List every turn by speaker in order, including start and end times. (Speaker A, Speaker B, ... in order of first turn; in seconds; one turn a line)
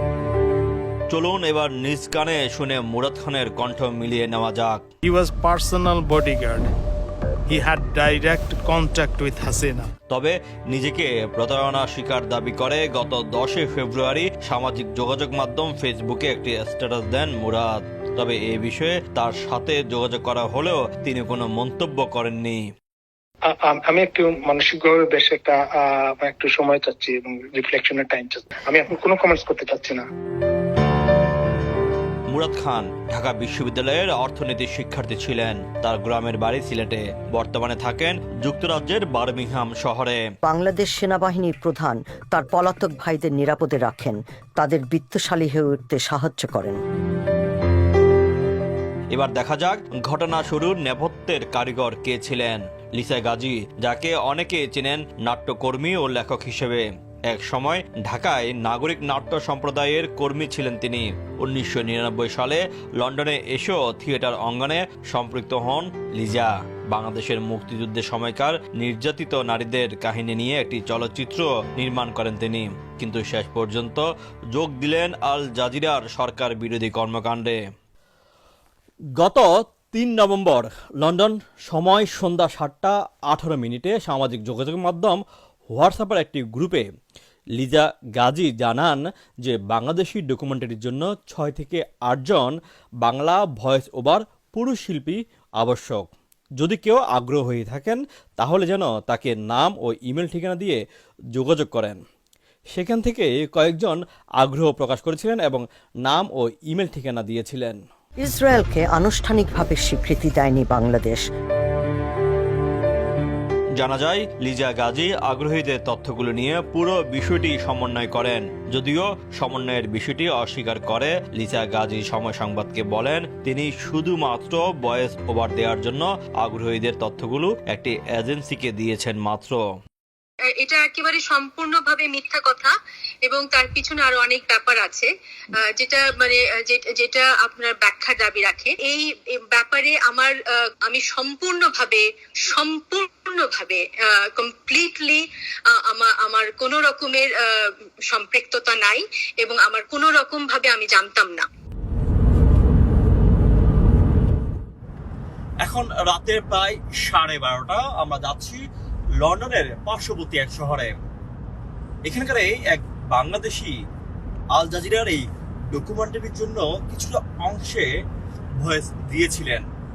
Speaker A: 1.1-4.8
Speaker B: 5.0-6.7
Speaker B: 7.5-9.9
Speaker A: 10.1-22.6
Speaker C: 23.5-30.0
Speaker A: 32.3-40.2
Speaker D: 40.4-46.8
Speaker A: 49.1-77.6
Speaker A: 79.2-86.8
Speaker A: 87.6-100.8
Speaker A: 101.3-102.0
Speaker A: 102.7-107.8
Speaker D: 108.2-111.2
Speaker A: 113.8-129.6
Speaker E: 130.5-132.7
Speaker E: 133.2-135.1
Speaker E: 135.6-147.4
Speaker E: 148.1-151.4
Speaker A: 155.6-158.6
Speaker A: 159.2-161.0
Speaker A: 162.0-163.7
Speaker A: 164.5-167.9
Speaker A: 168.6-169.7